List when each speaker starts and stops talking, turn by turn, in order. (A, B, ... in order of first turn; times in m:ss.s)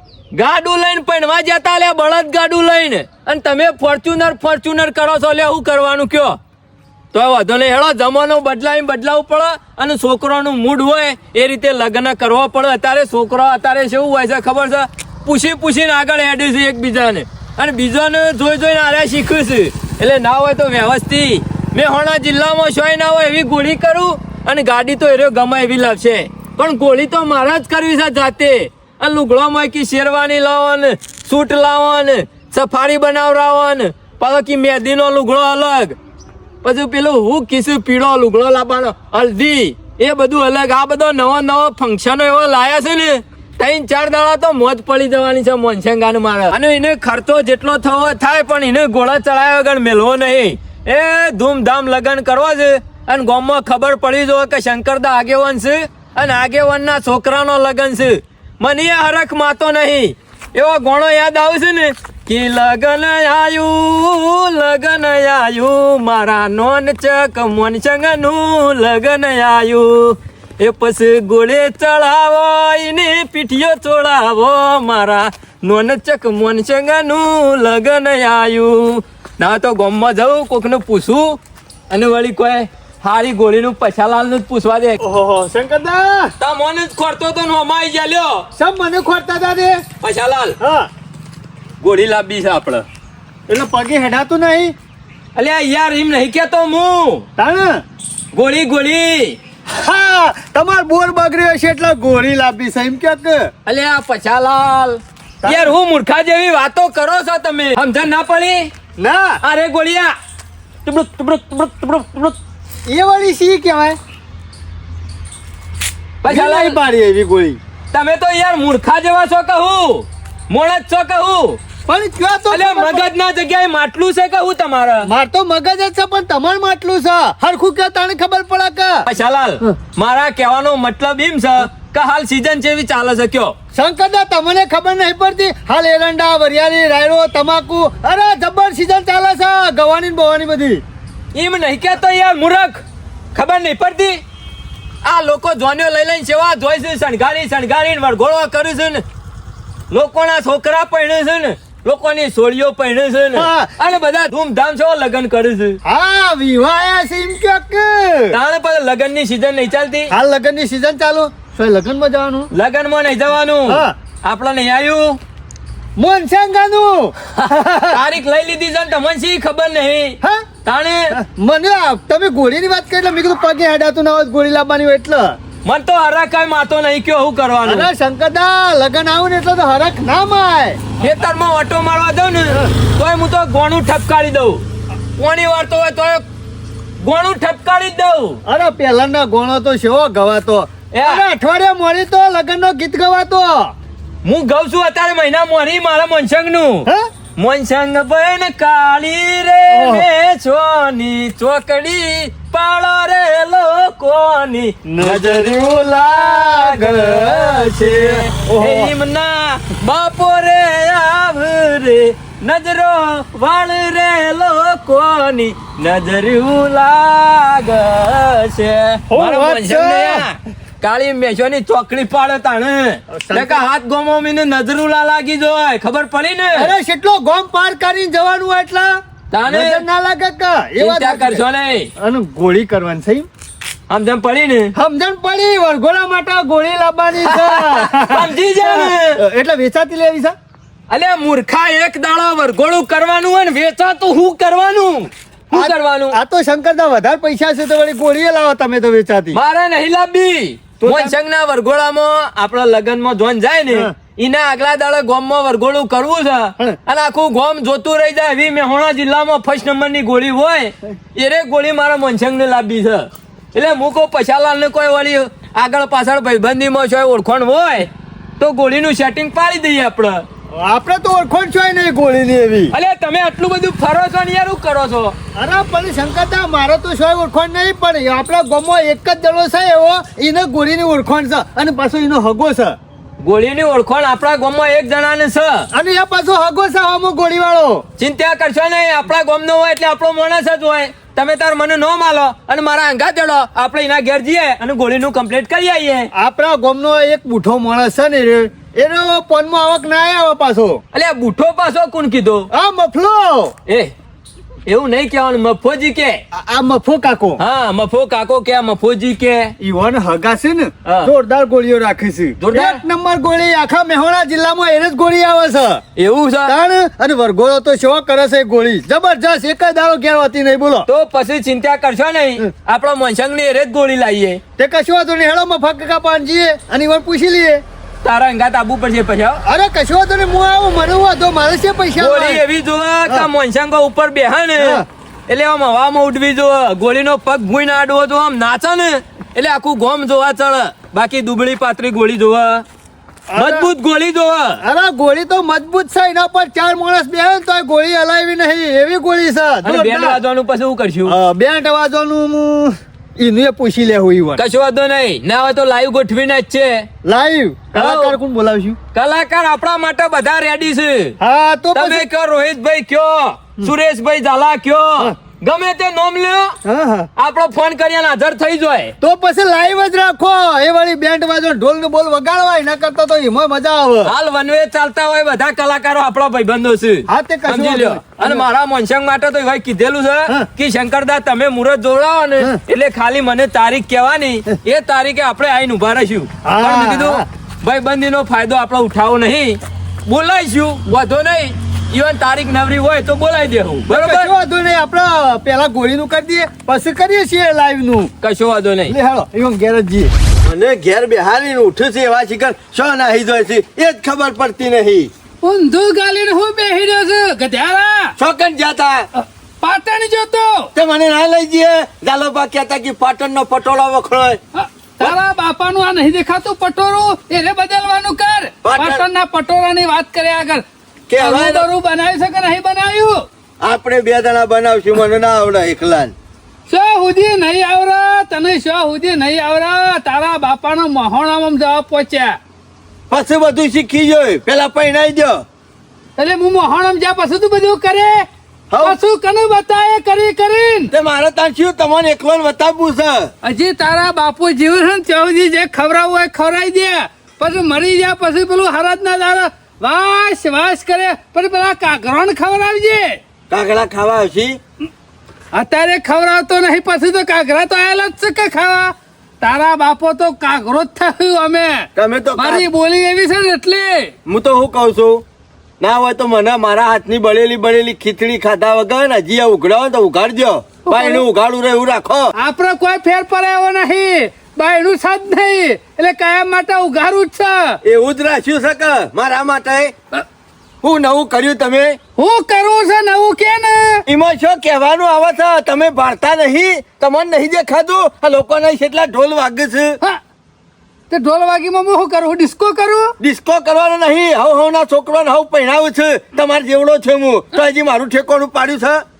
0:00.3-0:06.4 A
0:07.1-0:36.0 A
0:36.6-1:21.4 A
1:21.9-1:25.0 A
1:25.0-1:26.3 B
1:26.4-1:28.5 A
1:28.6-1:29.8 B
1:30.0-1:30.6 A
1:30.6-1:30.9 B
1:31.8-1:32.8 A
1:33.5-1:34.8 B
1:35.4-1:37.2 A
1:37.4-1:37.8 B
1:38.3-1:39.4 A
1:39.7-1:43.5 B
1:43.7-1:48.7 A
1:45.4-1:45.7 B
1:49.0-1:49.4 B
1:49.4-1:50.1 A
1:50.8-1:52.4 A
1:52.9-1:54.0 B
1:56.2-1:56.8 A
1:56.3-1:57.6 B
1:57.9-2:01.6 A
2:01.9-2:03.1 B
2:02.5-2:05.1 A
2:05.1-2:09.1 B
2:09.1-2:13.5 A
2:13.7-2:20.8 B
2:21.3-2:22.8 A
2:23.3-2:24.2 A
2:25.0-2:29.0 A
2:29.9-2:35.8 A
2:33.3-2:33.7 B
2:35.8-2:38.4 B
2:38.3-2:40.1 A
2:40.1-2:42.5 B
2:42.5-2:45.2 A
2:43.7-2:43.9 B
2:46.0-2:48.0 B
2:47.4-2:51.2 A
2:50.2-2:50.5 B
2:51.1-2:55.4 B
2:55.6-2:57.9 A
2:57.6-3:00.8 B
3:01.0-3:04.6 A
3:05.2-3:06.2 A
3:07.0-3:08.4 A
3:08.4-3:13.7 B
3:10.9-3:11.2 A
3:14.2-3:24.8 A
3:19.7-3:20.1 B
3:24.8-3:27.5 B
3:25.0-3:26.3 C
3:26.2-3:46.7 A
3:26.9-3:28.3 C
3:28.5-3:28.9 B
3:39.1-3:40.3 B
3:43.1-3:43.6 B
3:46.5-3:48.9 B
3:49.3-3:49.8 A
3:49.5-3:51.4 B
3:50.8-3:51.9 A
3:52.0-3:53.3 B
3:53.9-3:54.7 A
3:54.7-4:00.3 B
3:57.2-3:59.2 A
4:00.9-4:06.2 A
4:05.5-4:09.4 B
4:09.3-4:27.9 A
4:10.8-4:11.2 B
4:28.4-4:30.2 A
4:30.5-4:32.8 B
4:32.7-4:35.2 A
4:35.4-4:42.8 B
4:43.2-4:45.7 A
4:45.7-4:47.8 B
4:48.0-4:56.1 A
4:56.1-5:00.8 B
5:00.9-5:02.5 A
5:02.5-5:03.5 B
5:03.7-5:03.9 A
5:04.7-5:06.2 A
5:06.3-5:07.4 B
5:07.4-5:09.5 A
5:09.6-5:15.8 B
5:10.8-5:11.1 A
5:12.4-5:12.8 A
5:16.0-5:16.5 A
5:16.5-5:20.9 B
5:20.9-5:24.4 A
5:24.6-5:27.6 B
5:28.0-5:29.4 A
5:29.5-5:32.4 B
5:32.0-5:42.6 A
5:34.6-5:34.9 B
5:43.3-5:43.7 B
5:43.4-5:44.6 A
5:44.6-5:50.2 B
5:49.6-5:51.2 A
5:51.0-5:54.4 B
5:54.4-5:56.9 A
5:57.0-5:58.8 B
5:57.7-5:58.2 A
5:58.9-6:01.2 A
6:01.2-6:02.1 B
6:01.7-6:06.6 A
6:06.6-6:07.1 B
6:07.2-6:08.9 A
6:09.0-6:14.1 B
6:14.0-6:34.3 A
6:17.1-6:18.4 B
6:26.4-6:27.3 B
6:33.9-6:38.1 B
6:38.2-6:39.0 A
6:38.9-6:40.1 B
6:40.4-6:45.1 C
6:45.4-6:48.2 D
6:48.2-6:49.1 C
6:49.2-6:50.7 D
6:50.8-6:54.4 C
6:54.6-7:00.6 D
6:58.6-6:59.0 C
7:01.1-7:01.7 C
7:01.2-7:03.2 D
7:03.6-7:06.1 C
7:06.7-7:12.4 D
7:13.1-7:15.4 C
7:16.2-7:18.2 D
7:18.7-7:19.0 C
7:18.8-7:20.9 D
7:20.9-7:23.3 C
7:23.4-7:33.2 D
7:33.5-7:34.6 C
7:35.5-7:44.1 D
7:42.0-7:42.7 C
7:44.2-7:45.2 C
7:45.8-7:52.3 C
7:50.9-7:51.2 D
7:52.4-7:57.8 D
7:57.8-7:59.9 C
8:00.8-8:02.0 C
8:02.2-8:04.0 D
8:04.1-8:10.0 C
8:11.1-8:13.1 D
8:13.2-8:19.0 C